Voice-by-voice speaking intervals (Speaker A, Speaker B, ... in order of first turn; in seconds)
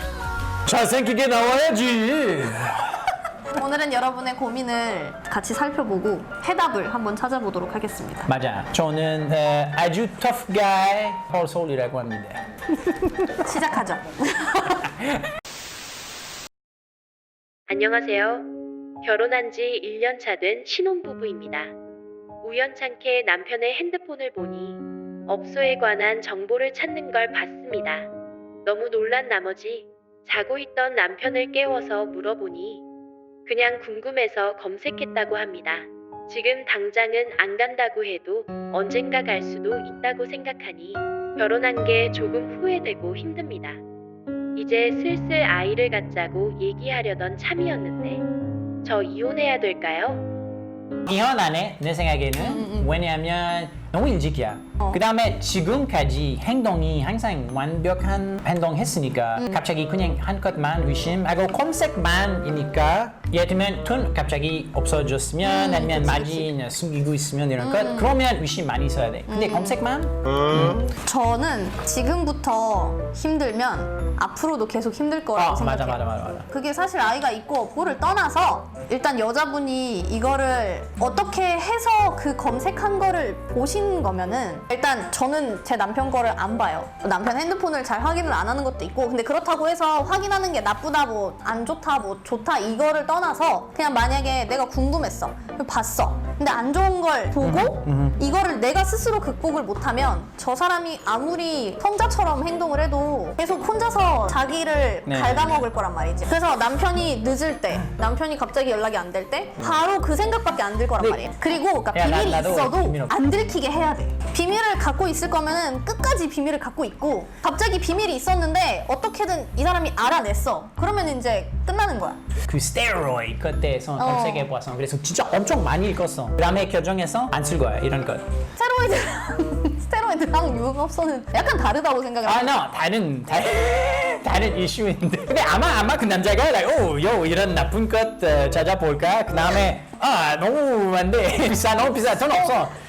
Speaker A: 0.7-3.1, 8.3-13.3, 14.9-15.2, 51.1-70.8, 75.3-76.5, 97.4-98.2, 105.0-105.6, 111.0-111.2, 111.9-113.2, 122.5-128.3, 132.2-142.8
Speaker B: 3.5-8.3, 13.4-14.8, 52.4-52.9, 59.4-59.6, 65.4-66.5, 67.6-68.1, 69.3-69.8, 70.6-122.2, 124.0-124.5, 128.6-132.6, 142.2-142.6
Speaker C: 17.7-18.5, 19.0-21.7, 22.4-28.1, 28.6-32.8, 33.5-43.8, 44.6-48.2, 48.8-50.2